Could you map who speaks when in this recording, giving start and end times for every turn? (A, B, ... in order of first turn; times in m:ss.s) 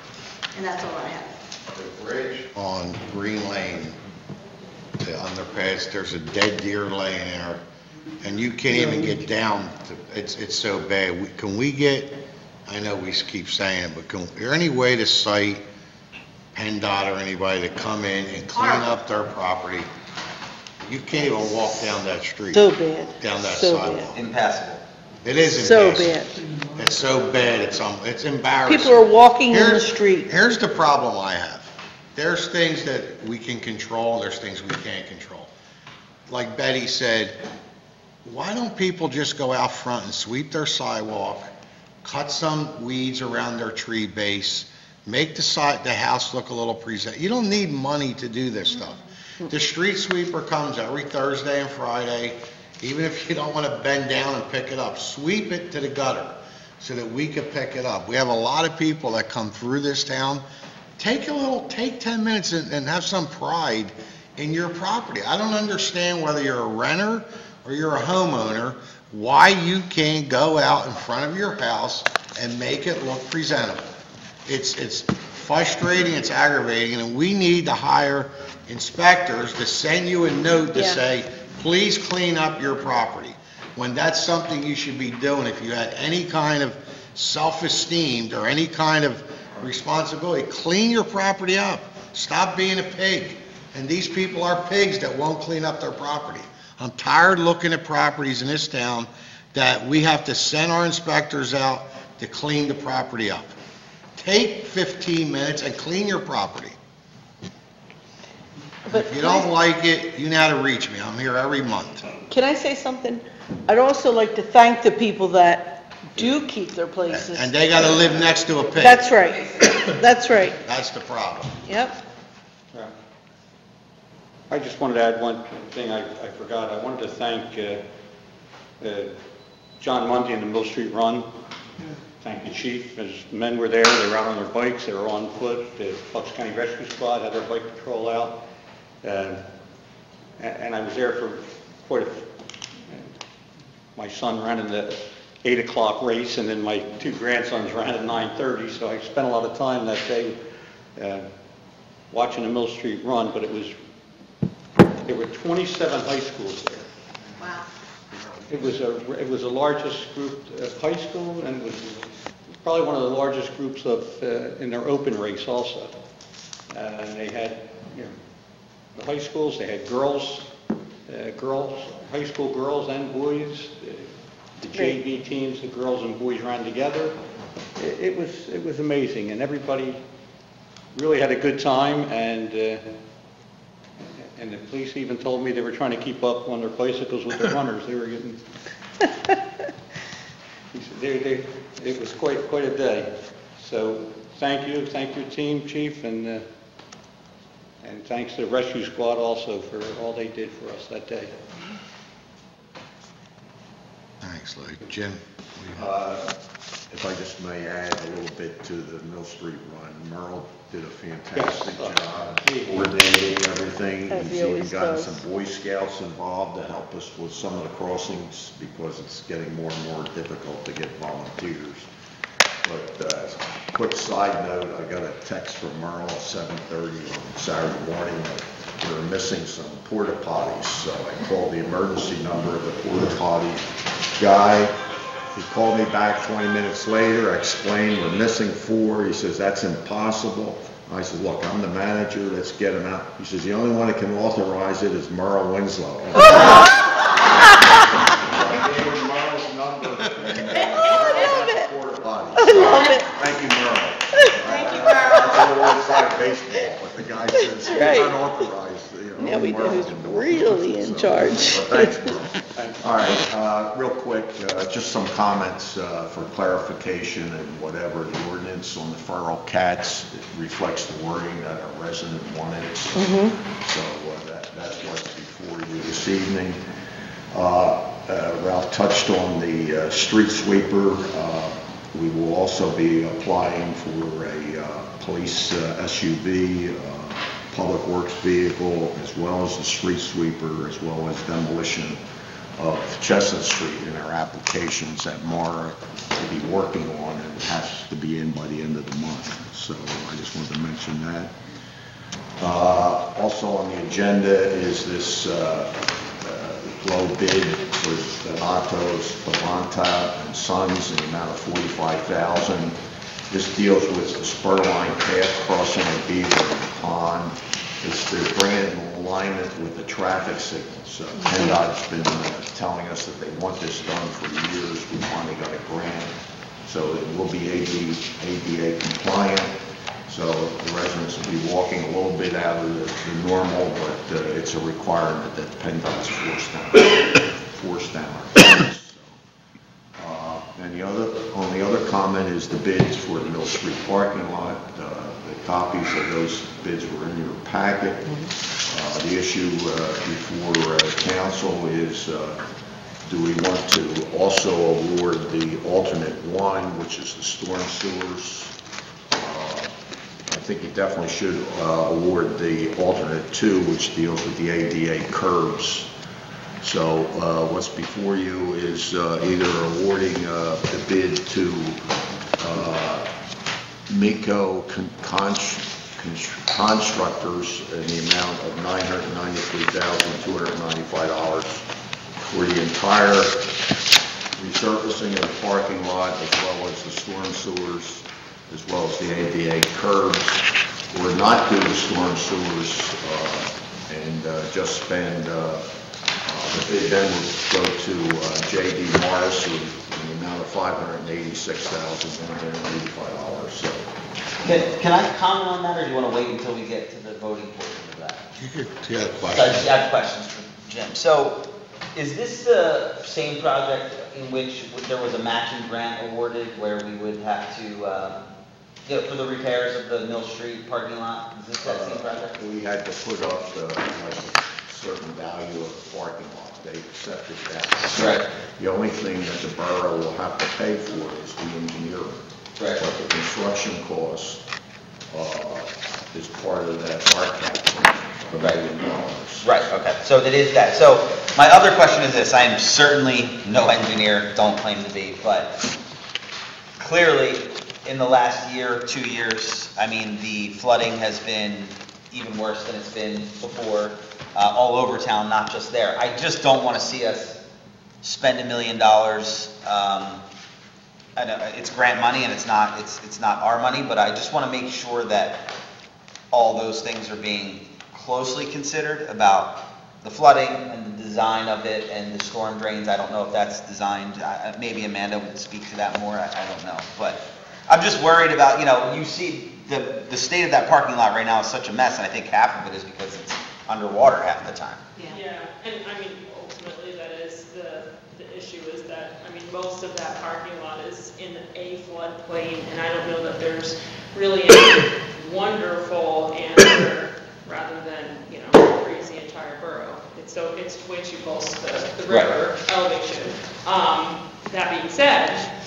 0:00.5-0:01.4 A
0:01.7-0:04.0 B
0:05.0-0:07.6 B
0:08.2-0:12.1 B
0:12.7-0:15.6 B
0:16.5-0:19.9 B
0:18.5-0:19.0 A
0:20.8-0:24.2 B
0:22.5-0:24.1 C
0:24.1-0:24.8 D
0:25.2-0:26.1 B
0:25.4-0:26.4 C
0:26.8-0:29.0 B
0:28.7-0:30.3 C
0:29.5-0:35.5 B
0:36.3-0:37.4 B
0:38.2-0:41.5 B
0:42.0-1:00.4 B
1:01.0-1:13.9 B
1:14.5-1:43.5 B
1:20.7-1:21.0 C
1:44.2-1:46.8 B
1:48.9-1:49.5 C
1:48.9-1:52.1 B
1:52.3-1:58.0 C
1:57.1-1:59.1 B
1:58.8-2:00.6 C
2:00.6-2:01.6 B
2:01.7-2:02.0 C
2:04.5-2:07.8 E
2:08.8-2:09.2 E
2:09.8-2:11.3 E
2:11.8-2:18.4 E
2:19.0-2:19.4 E
2:20.4-2:22.3 E
2:24.0-2:30.4 E
2:31.0-2:31.3 E
2:32.1-2:33.8 E
2:35.1-2:36.9 E
2:37.4-2:37.7 A
2:38.5-2:45.9 E
2:46.7-2:48.1 E
2:49.0-2:50.5 E
2:51.1-2:57.2 E
2:57.8-3:00.0 E
3:00.9-3:02.8 E
3:04.0-3:08.4 E
3:10.7-3:16.5 E
3:17.8-3:21.3 E
3:24.2-3:25.9 B
3:25.7-3:26.3 F
3:26.9-3:41.9 F
3:31.4-3:33.2 E
3:34.1-3:35.2 C
3:42.6-3:54.8 F
3:55.3-4:07.3 F
4:08.1-4:36.6 F
4:10.9-4:11.6 C
4:12.4-4:13.2 C
4:14.1-4:14.4 C
4:14.4-4:15.5 A
4:17.6-4:18.3 C
4:19.2-4:22.0 C
4:33.0-4:33.4 C
4:37.3-4:52.0 F
4:52.6-5:01.3 F
5:02.4-5:12.8 F
5:13.3-5:26.1 F
5:21.2-5:21.6 C
5:26.7-5:29.5 F
5:30.1-5:39.2 F
5:40.0-5:48.1 F
5:48.6-5:52.4 F
5:53.1-5:58.6 F
5:59.1-5:59.7 F
6:00.3-6:05.9 F
6:06.6-6:11.8 F
6:12.4-6:13.1 F
6:13.9-6:23.5 F
6:24.4-6:35.7 F
6:36.2-6:43.9 F
6:44.4-6:48.2 D
6:48.4-6:49.7 B
6:49.3-6:51.4 D
6:52.0-6:58.2 D
6:58.9-7:02.4 D
7:01.6-7:14.4 F
7:07.9-7:08.2 D
7:12.6-7:12.8 D
7:15.1-7:19.7 F
7:18.4-7:18.6 D
7:19.4-7:25.6 D
7:26.8-7:37.4 D
7:38.0-7:40.2 D
7:41.2-7:45.4 D
7:46.3-8:04.8 D
8:05.0-8:25.5 G
8:22.1-8:22.4 D